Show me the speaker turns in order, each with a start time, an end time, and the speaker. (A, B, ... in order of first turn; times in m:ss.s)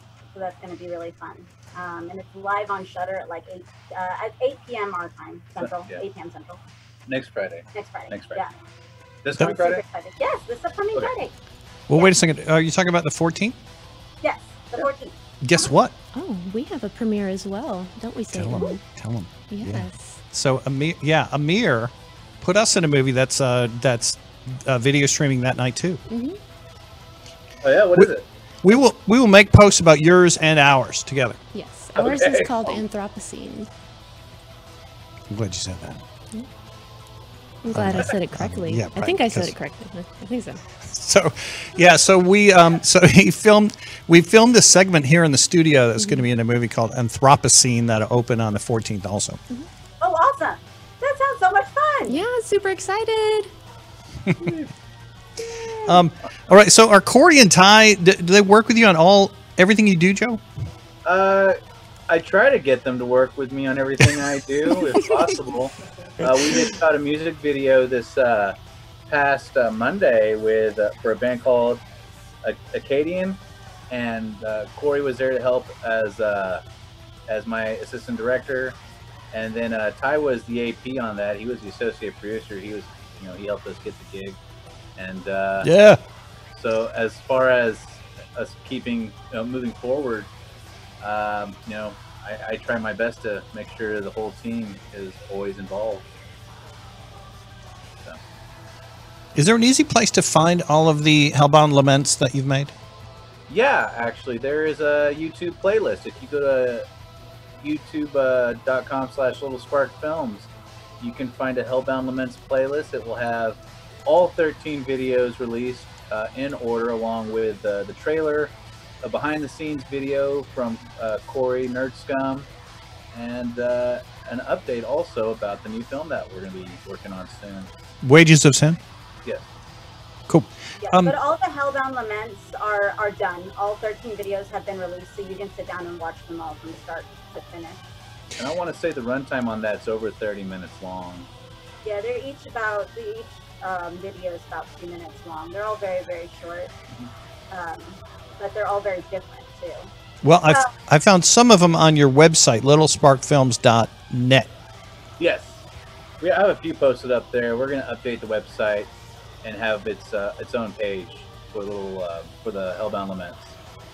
0:00.3-0:06.6 A
0:05.6-0:06.0 B
0:07.1-0:08.4 B
0:07.7-0:08.5 A
0:09.2-0:09.8 B
0:09.4-0:11.3 A
0:11.9-0:13.6 C
0:14.2-0:15.7 A
0:15.4-0:15.9 C
0:16.1-0:18.8 D
0:18.3-0:26.0 C
0:19.5-0:20.2 D
0:26.1-0:26.4 D
0:27.6-0:28.2 B
0:28.6-0:31.4 C
0:31.5-0:33.7 D
0:32.0-0:32.8 B
0:35.3-0:36.0 C
0:37.6-0:40.6 D
0:37.7-0:39.5 C
0:40.8-0:49.4 C
0:46.0-0:46.3 D
0:50.0-0:52.2 A
0:52.1-0:53.5 D
0:55.4-0:56.0 D
0:55.8-1:00.4 C
1:01.0-1:01.6 B
1:02.1-1:08.6 B
1:09.1-1:11.8 B
1:12.4-1:13.4 B
1:13.9-1:16.6 B
1:17.3-1:18.8 B
1:19.3-1:24.4 B
1:25.0-1:25.7 B
1:25.6-1:26.0 C
1:26.5-1:30.3 B
1:31.0-1:36.1 B
1:39.3-1:42.7 C
1:43.5-1:46.8 B
1:47.6-2:02.5 B
2:03.1-2:07.8 B
2:08.0-2:08.8 C
2:10.3-2:11.1 C
2:10.8-2:17.8 A
2:18.4-2:21.3 B
2:21.8-2:26.7 A
2:27.5-2:29.9 A
2:30.2-2:34.5 C
2:35.2-2:35.6 B
2:36.2-2:38.9 B
2:39.4-2:43.6 B